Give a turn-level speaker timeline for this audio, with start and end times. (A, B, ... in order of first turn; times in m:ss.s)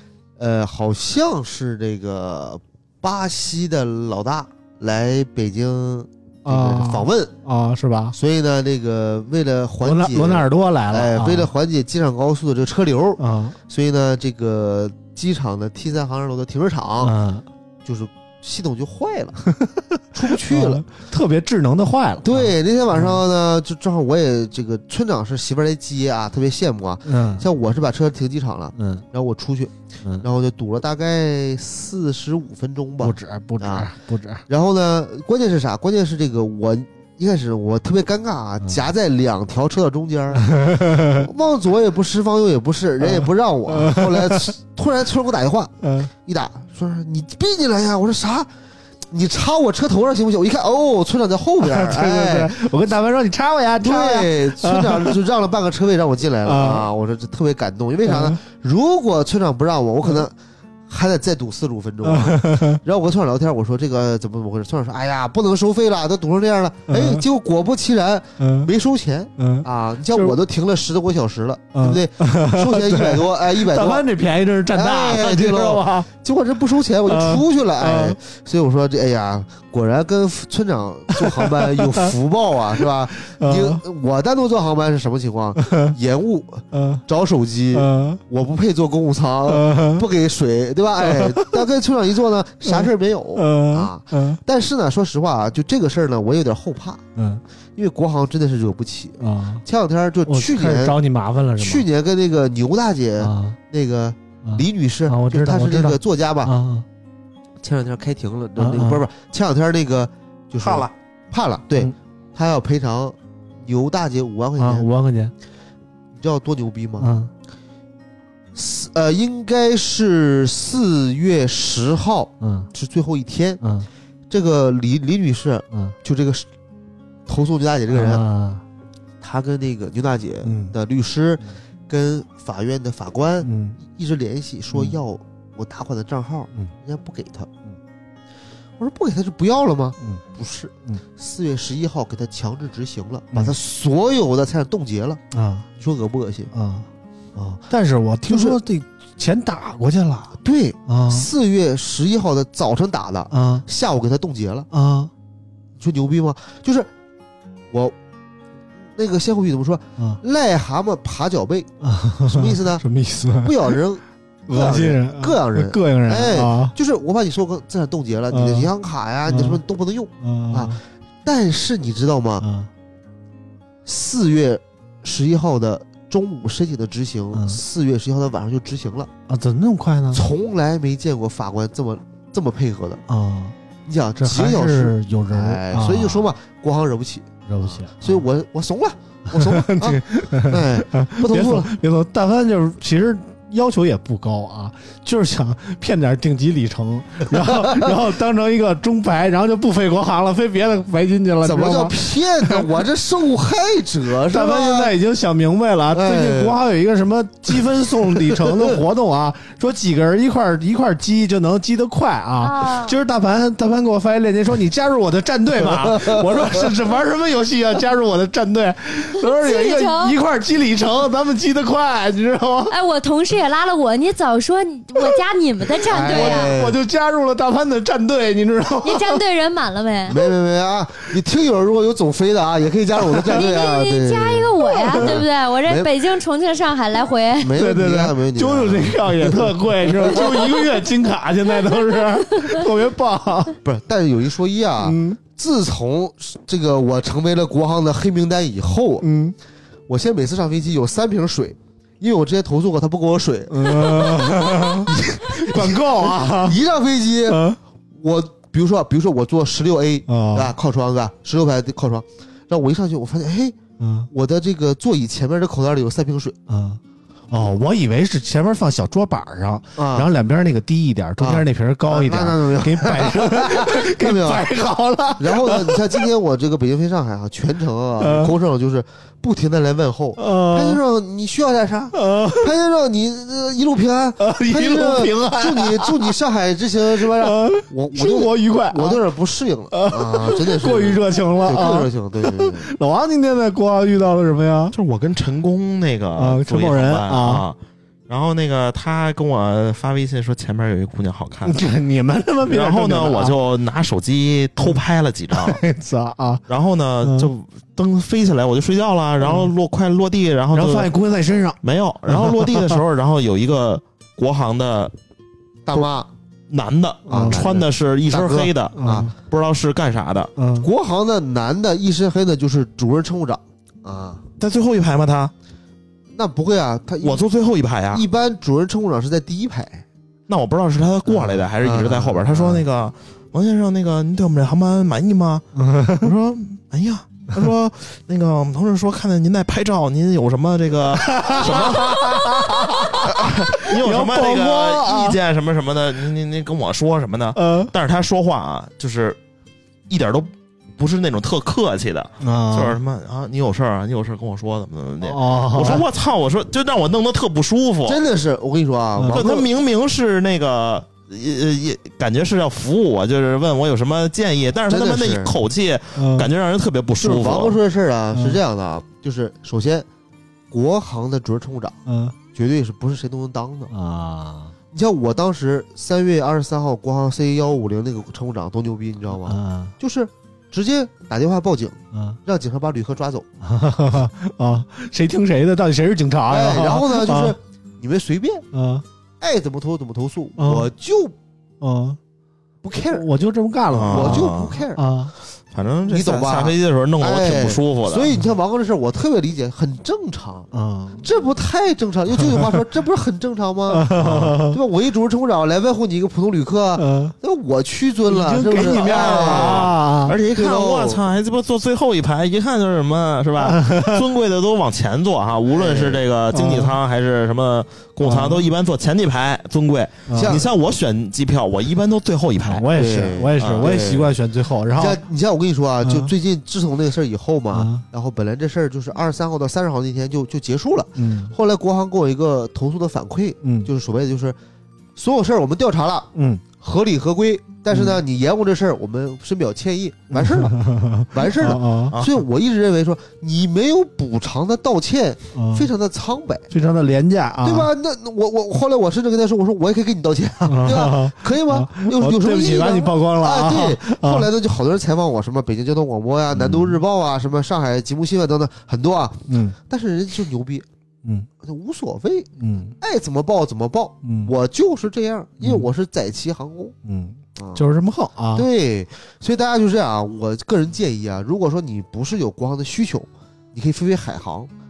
0:00.4-0:07.3 A
0:06.4-0:08.2 B
0:08.1-0:17.2 A
0:09.8-0:11.5 B
0:13.2-0:13.6 B
0:17.0-0:17.4 B
0:17.8-0:19.4 A
0:19.5-0:23.2 B
0:20.1-0:20.8 A
0:22.2-0:33.9 A
0:27.0-0:27.4 B
0:28.8-0:29.0 B
0:33.0-0:34.4 B
0:34.5-0:48.5 A
0:40.3-0:41.3 B
0:43.0-0:44.5 B
0:45.8-0:46.1 B
0:49.1-0:52.6 A
0:51.6-0:55.2 B
0:53.8-1:00.3 A
0:56.4-0:56.9 B
0:58.0-0:58.4 B
1:00.9-1:14.0 A
1:02.0-1:02.8 B
1:06.9-1:07.2 B
1:08.4-1:08.7 B
1:09.4-1:10.4 B
1:11.7-1:16.1 B
1:14.7-1:37.0 A
1:17.0-1:18.2 B
1:21.2-1:22.1 B
1:22.8-1:23.8 B
1:25.6-1:25.9 B
1:26.7-1:27.0 B
1:27.7-1:28.2 B
1:29.5-1:30.0 B
1:31.0-1:31.7 B
1:32.6-1:34.4 B
1:37.2-1:37.4 B
1:37.8-1:41.0 A
1:39.2-1:39.6 B
1:40.2-1:41.8 B
1:41.6-1:46.5 A
1:43.2-1:43.6 B
1:44.4-1:46.8 B
1:47.6-1:54.8 A
1:48.6-1:49.1 B
1:50.6-1:50.9 B
1:54.6-1:55.3 B
1:56.2-1:57.1 A
1:57.0-1:57.3 B
1:58.5-2:03.6 A
2:02.4-2:02.7 B
2:03.6-2:03.9 B
2:04.3-2:06.5 A
2:07.3-2:08.2 A
2:07.9-2:08.6 B
2:09.2-2:17.5 A
2:10.4-2:10.7 B
2:13.4-2:13.8 B
2:14.7-2:15.0 B
2:18.8-2:25.2 A
2:25.3-2:25.7 B
2:25.8-2:26.5 A
2:26.5-2:26.9 B
2:27.4-2:31.3 B
2:28.3-2:28.6 A
2:30.4-2:34.7 A
2:33.3-2:33.6 B
2:34.7-2:35.1 B
2:35.8-2:36.9 A
2:38.9-2:41.7 A
2:41.8-2:43.8 B
2:42.2-2:42.8 A
2:43.4-2:52.4 A
2:44.5-2:46.7 B
2:48.3-2:48.7 B
2:49.2-2:49.6 B
2:50.2-2:50.8 B
2:52.4-2:52.7 B
2:53.8-2:59.1 A
2:57.3-2:57.6 B
2:59.3-3:00.3 B
3:00.1-3:03.0 A
3:03.1-3:03.5 B
3:03.8-3:11.7 A
3:04.2-3:06.3 B
3:07.5-3:08.2 B
3:09.3-3:22.7 B
3:17.3-3:18.0 A
3:21.4-3:24.9 A
3:24.3-3:42.7 B
3:25.9-3:26.6 A
3:28.3-3:28.7 A
3:32.4-3:33.0 C
3:35.7-3:36.4 A
3:39.2-3:40.1 C
3:42.7-3:46.5 C
3:45.9-3:46.8 A
3:45.9-3:49.2 B
3:48.8-3:50.2 C
3:50.1-3:55.9 A
3:53.1-3:53.4 B
3:53.3-3:57.5 C
3:54.8-3:55.2 B
3:57.4-4:00.5 A
3:57.5-4:03.6 B
4:02.3-4:02.6 C
4:03.6-4:09.1 A
4:04.8-4:05.2 B
4:09.0-4:09.3 B
4:09.9-4:17.4 A
4:13.5-4:16.6 B
4:17.3-4:17.6 B
4:17.9-4:23.6 A
4:20.1-4:20.5 B
4:23.8-4:24.1 B
4:24.1-4:26.4 A
4:26.5-4:26.8 B
4:27.3-4:36.1 B
4:29.8-4:30.1 A
4:31.2-4:34.5 A
4:35.2-4:52.7 A
4:38.0-4:38.3 B
4:40.2-4:40.8 B
4:41.9-4:42.5 B
4:44.2-4:46.2 B
4:46.9-4:49.0 B
4:49.7-4:54.8 B
4:54.7-4:57.6 D
4:56.2-4:57.4 B
4:58.1-5:01.7 D
5:01.4-5:03.4 B
5:02.5-5:05.6 D
5:05.3-5:06.4 B
5:06.5-5:10.9 D
5:07.0-5:07.3 B
5:09.2-5:09.5 B
5:10.5-5:12.8 B
5:11.6-5:14.9 D
5:15.7-5:16.1 A
5:16.5-5:20.3 D
5:17.1-5:17.4 B
5:17.1-5:19.1 A
5:18.7-5:19.1 B
5:20.4-5:20.7 B
5:20.6-5:24.2 A
5:24.4-5:25.3 D
5:26.1-5:27.2 A
5:27.0-5:28.0 D
5:27.9-5:29.8 A
5:30.3-5:49.2 D
5:31.0-5:32.6 A
5:35.5-5:36.1 B
5:41.0-5:45.2 B
5:47.4-5:47.7 B
5:49.9-5:58.0 D
5:52.2-5:52.8 B
5:55.0-5:55.9 B
5:57.8-5:59.5 A
5:59.0-5:59.2 B
5:59.1-6:07.6 D
6:04.7-6:05.4 A
6:06.0-6:06.3 B
6:07.0-6:09.9 A
6:08.1-6:08.4 B
6:10.5-6:11.8 A
6:11.9-6:12.2 B
6:12.3-6:13.7 A
6:13.7-6:14.5 B
6:14.7-6:23.3 A
6:19.2-6:19.7 B
6:21.9-6:22.2 B
6:23.4-6:27.4 B
6:26.3-6:28.4 A
6:28.5-6:28.8 B
6:29.2-6:31.1 A
6:30.4-6:30.7 B
6:31.6-6:32.0 B
6:32.6-6:33.1 A
6:32.8-6:35.1 B
6:33.7-6:34.6 D
6:33.9-6:34.8 A
6:35.5-6:38.2 D
6:35.9-6:40.5 A
6:40.5-6:41.1 B
6:41.0-6:51.0 A
6:43.7-6:44.6 B
6:46.8-6:47.1 B
6:48.0-6:50.1 B
6:48.5-7:04.0 D
6:53.4-6:54.0 B
6:55.5-6:56.0 A
6:56.3-6:56.8 B
6:58.0-6:58.4 B
7:00.1-7:00.4 B
7:00.1-7:00.5 A
7:02.4-7:05.0 B
7:02.7-7:04.1 A
7:04.6-7:14.4 A
7:05.8-7:06.1 B
7:07.5-7:07.8 B
7:11.0-7:11.3 B
7:13.4-7:13.7 B
7:15.0-7:26.5 A
7:16.1-7:16.4 B
7:17.7-7:18.0 B
7:20.1-7:21.9 B
7:21.9-7:22.2 D
7:25.3-7:25.7 B
7:26.5-7:27.7 B
7:27.4-7:40.6 A
7:30.4-7:34.3 B
7:36.3-7:36.8 B
7:39.3-7:39.6 B
7:41.4-7:46.7 A
7:42.4-7:42.7 B
7:44.0-7:44.3 B
7:45.4-7:45.7 B
7:46.8-7:48.5 B
7:47.4-7:47.6 A
7:48.3-7:54.5 A